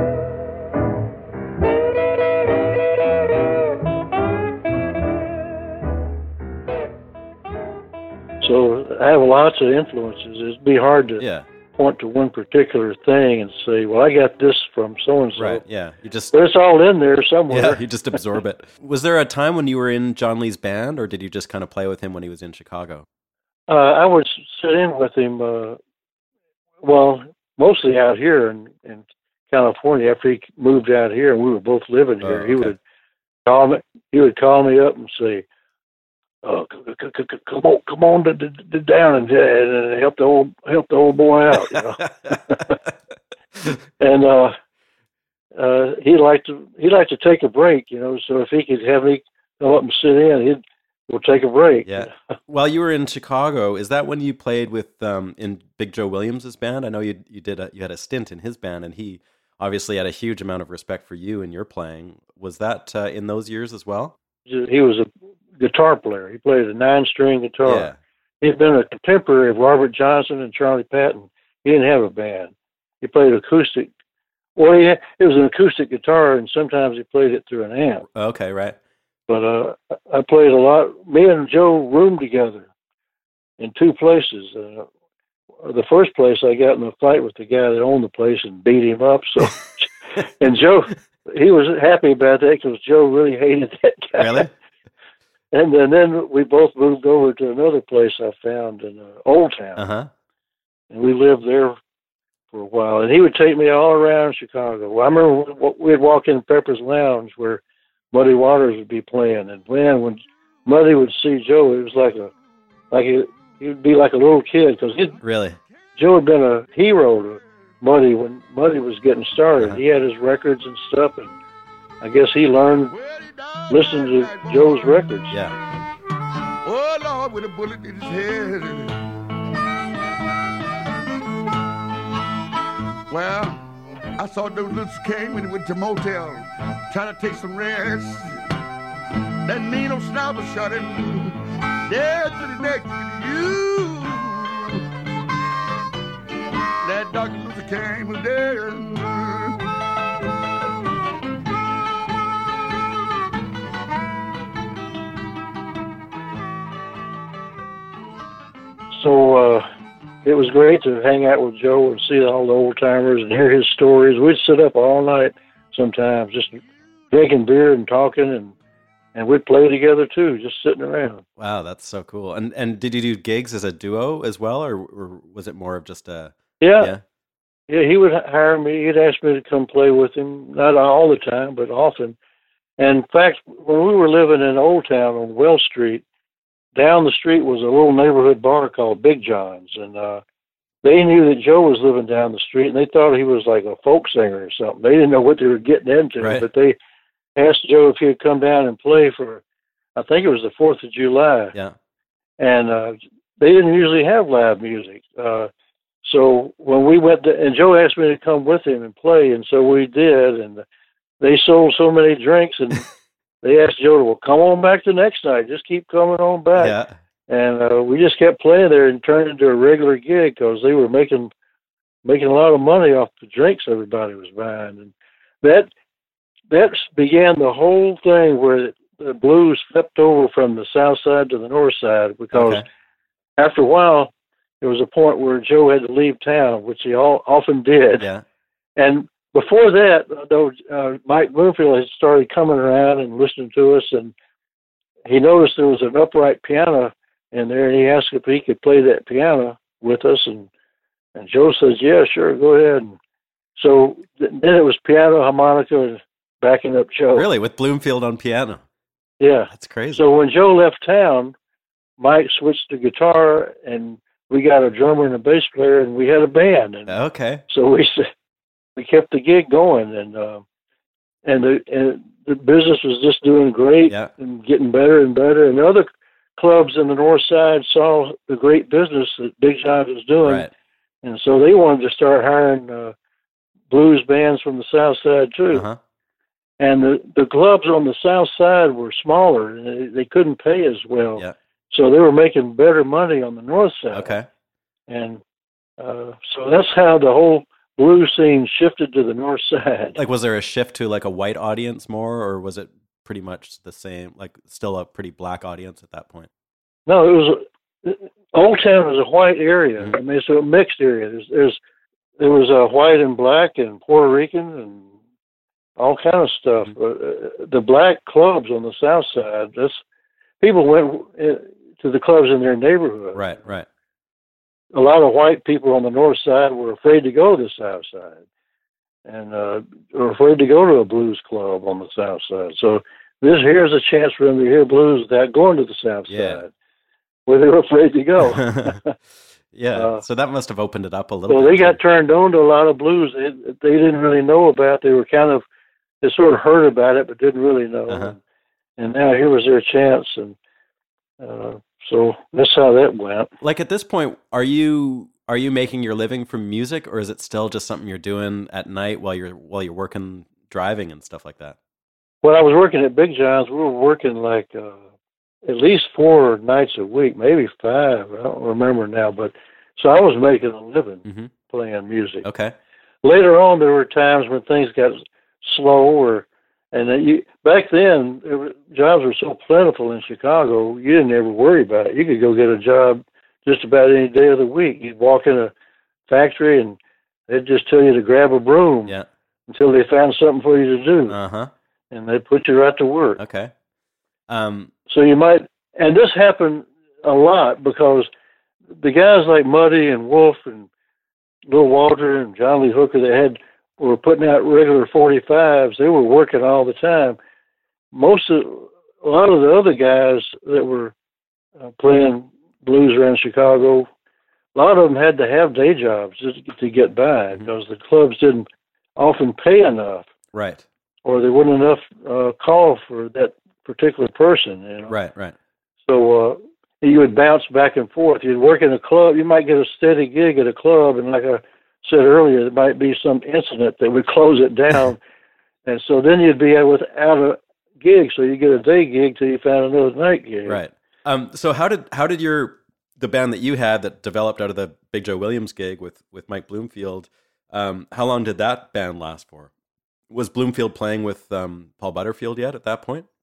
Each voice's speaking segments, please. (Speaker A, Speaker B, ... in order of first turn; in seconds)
Speaker A: 8.4-11.2, 11.8-15.6, 16.3-17.8, 23.7-25.8, 26.8-32.8, 33.5-35.4, 36.4-42.7, 44.0-44.5, 45.5-52.1, 64.5-65.1, 65.6-67.9, 68.4-73.9, 74.5-78.0, 79.3-82.7, 83.6-84.9, 85.6-94.5, 95.5-99.8, 100.9-101.8, 102.5-112.3, 112.9-115.2, 116.0-121.3, 122.0-122.9, 123.7-125.4, 158.9-159.6, 160.2-168.5, 169.1-171.2, 176.6-176.9, 177.7-182.2, 182.8-186.0, 186.8-190.2, 190.8-196.8, 197.3-199.4, 199.9-201.5, 202.4-205.5, 206.0-210.6, 211.2-212.8, 213.4-216.8, 217.3-221.3, 222.0-225.7, 226.5-232.6, 233.4-238.1, 238.8-244.1, 245.1-250.5, 251.1-253.0, 253.6-257.2, 259.2-261.3, 262.0-266.9, 267.5-268.1, 268.8-270.4, 271.2-280.5, 281.0-282.9, 283.7-285.6, 286.6-294.1, 294.9-295.2, 295.8-300.0, 306.9-311.6, 312.2-314.9, 315.8-319.8, 320.4-323.2, 324.7-328.2, 329.1-336.5, 337.3-338.9, 339.7-340.0, 341.3-345.4, 346.0-348.2, 348.8-350.4, 351.2-353.3, 362.2-364.8, 365.4-372.2, 373.0-385.5, 386.1-388.9, 389.5-391.1, 391.9-393.2, 394.9-398.1, 398.8-400.7, 401.5-407.2, 407.9-410.9, 411.8-413.9, 414.5-418.4, 419.0-420.1, 421.0-424.9, 425.9-435.0, 435.6-440.6
Speaker B: 11.2-11.4, 15.4-16.3, 17.5-23.1, 32.2-32.7, 41.7-42.5, 51.9-64.1, 67.6-68.0, 78.1-78.8, 94.2-94.5, 99.8-100.1, 115.2-115.6, 171.4-177.0, 216.6-216.9, 232.3-232.6, 257.1-258.6, 259.5-260.0, 266.9-267.4, 280.2-280.5, 285.5-285.8, 293.9-294.2, 299.9-306.3, 323.1-323.6, 336.1-336.4, 338.3-338.8, 339.5-341.8, 347.9-348.1, 353.4-361.6, 371.0-371.3, 372.2-372.5, 391.1-391.5, 393.2-393.5, 394.3-394.7, 420.3-420.6, 424.9-425.3, 440.4-449.5, 450.1-453.1
Speaker C: 122.9-124.8, 126.6-128.9, 133.1-133.6, 134.2-138.4, 139.4-144.8, 146.8-149.6